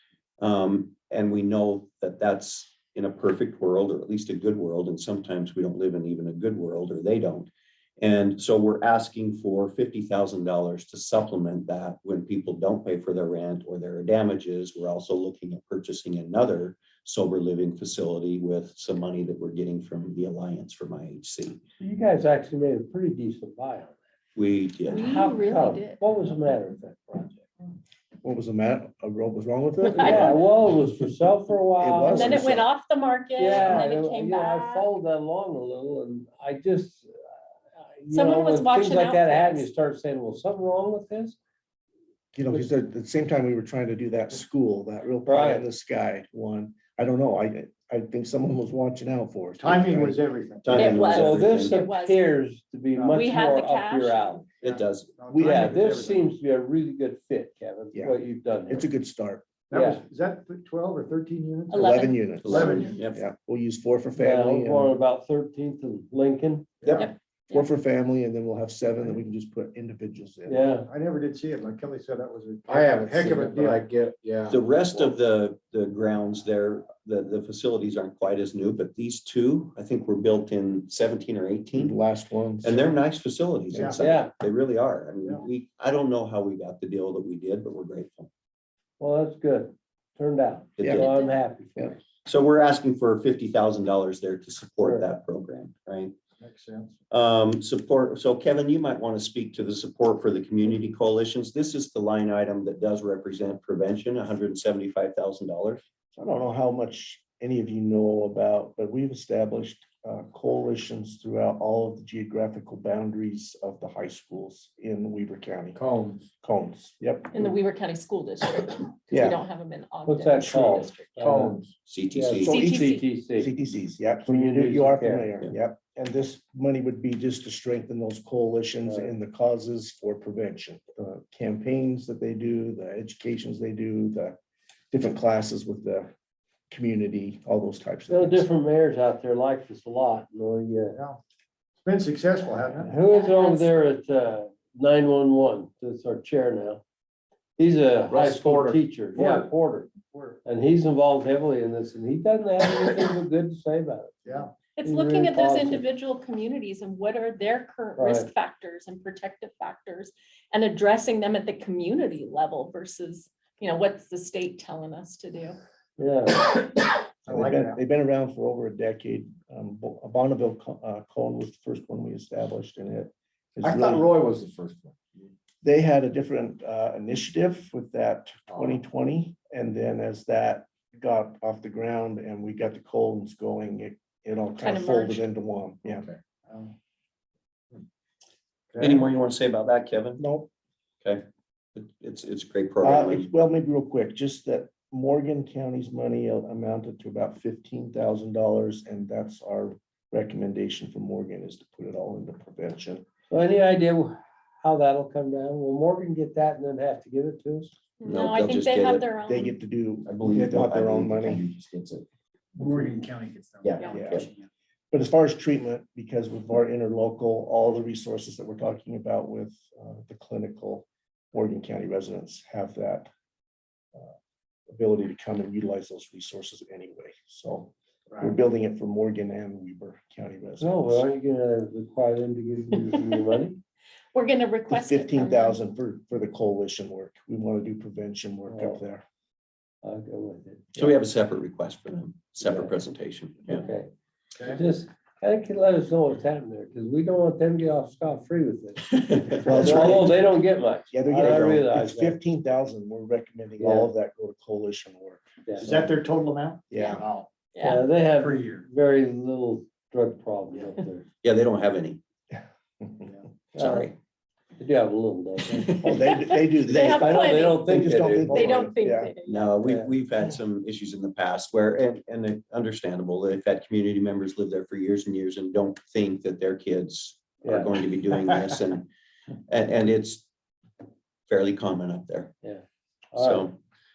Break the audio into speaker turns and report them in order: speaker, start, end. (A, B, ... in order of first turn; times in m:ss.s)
0:00.4-0:21.6 A
0:21.8-0:24.0 B
0:24.4-0:25.1 A
0:24.8-0:26.0 C
0:25.0-0:27.5 B
0:28.2-0:30.4 D
0:29.9-0:32.5 B
0:30.0-0:30.3 C
0:31.8-0:32.7 D
0:32.1-0:34.9 C
0:33.4-0:37.1 B
0:33.5-0:33.8 D
0:37.8-0:41.4 B
0:38.1-0:39.7 C
0:42.3-0:50.2 D
0:45.2-0:45.7 B
0:49.6-0:51.1 E
0:50.6-0:51.8 A
0:50.7-0:52.2 C
0:51.0-0:54.5 B
0:53.0-0:54.2 C
0:54.6-0:56.3 E
0:54.6-0:55.1 A
0:55.3-0:55.8 D
0:55.4-0:58.9 B
0:57.9-0:59.4 D
0:59.7-1:03.0 E
0:59.7-1:00.0 B
1:01.7-1:03.0 C
1:01.7-1:04.9 D
1:02.4-1:03.3 A
1:04.2-1:06.9 B
1:06.8-1:10.7 D
1:06.8-1:07.1 E
1:06.9-1:07.7 C
1:10.5-1:10.9 B
1:10.9-1:13.9 E
1:12.7-1:14.6 F
1:14.5-1:22.0 A
1:21.7-1:22.9 D
1:22.6-1:28.3 A
1:23.7-1:24.0 D
1:23.8-1:24.0 E
1:24.0-1:24.3 B
1:29.0-1:32.0 B
1:30.8-1:31.3 A
1:30.8-1:31.0 D
1:32.2-1:36.1 A
1:34.8-1:35.1 B
1:36.4-1:37.0 E
1:37.1-1:45.8 A
1:46.2-1:55.8 D
1:55.8-1:56.3 F
1:56.4-1:57.6 D
1:57.3-2:01.3 C
1:59.1-1:59.4 D
2:00.0-2:03.5 B
2:00.4-2:00.7 D
2:01.2-2:01.7 F
2:01.9-2:02.6 A
2:02.4-2:14.4 D
2:02.4-2:03.0 C
2:04.3-2:05.4 B
2:08.9-2:09.1 B
2:14.9-2:16.1 D
2:16.7-2:18.5 D
2:18.1-2:21.0 B
2:20.9-2:21.2 E
2:21.8-2:22.9 E
2:22.8-2:26.8 B
2:23.0-2:23.7 C
2:27.6-2:29.9 B
2:28.1-2:29.5 F
2:30.1-2:30.4 E
2:30.4-2:35.8 B
2:34.8-2:45.6 C
2:38.0-2:38.3 B
2:46.0-2:46.6 B
2:47.2-2:47.8 E
2:47.3-2:54.1 D
2:53.6-2:55.3 F
2:55.6-3:06.1 D
2:58.5-2:58.8 F
3:04.6-3:05.2 C
3:06.5-3:06.7 E
3:08.7-3:09.0 E
3:08.8-3:10.2 A
3:10.2-3:10.5 D
3:11.8-3:13.3 A
3:12.8-3:23.0 D
3:23.3-3:27.7 B
3:28.0-3:29.6 C
3:28.0-3:29.1 A
3:29.3-3:31.5 D
3:30.1-3:32.0 F
3:32.6-3:34.3 F
3:32.6-3:34.2 E
3:33.8-3:34.1 C
3:33.9-3:34.3 D
3:34.9-3:43.1 D
3:44.7-3:51.1 D
3:50.6-3:53.6 B
3:54.1-3:55.6 C
3:54.7-3:59.0 D
3:58.5-3:58.8 B
3:59.8-4:00.7 B
4:00.8-4:03.7 A
4:02.4-4:02.7 B
4:03.5-4:03.9 B
4:04.4-4:12.2 B
4:08.9-4:10.1 A
4:09.4-4:10.3 D
4:10.9-4:15.9 D
4:13.6-4:13.9 B
4:15.6-4:17.3 E
4:16.7-4:17.0 D
4:16.7-4:17.0 C
4:17.6-4:17.8 C
4:17.6-4:21.1 B
4:18.2-4:18.6 E
4:21.2-4:22.0 A
4:22.3-4:23.1 D
4:23.6-4:23.9 A
4:23.6-4:23.9 B
4:23.6-4:23.9 C
4:24.6-4:25.9 B
4:25.5-4:27.1 A
4:25.8-4:29.2 D
4:26.6-4:29.6 C
4:26.9-4:28.6 B
4:29.3-4:38.9 A
4:29.6-4:29.9 B
4:37.4-4:37.8 B
4:39.5-4:40.2 A
4:41.3-4:42.3 A
4:43.2-4:43.5 B
4:43.2-4:43.6 A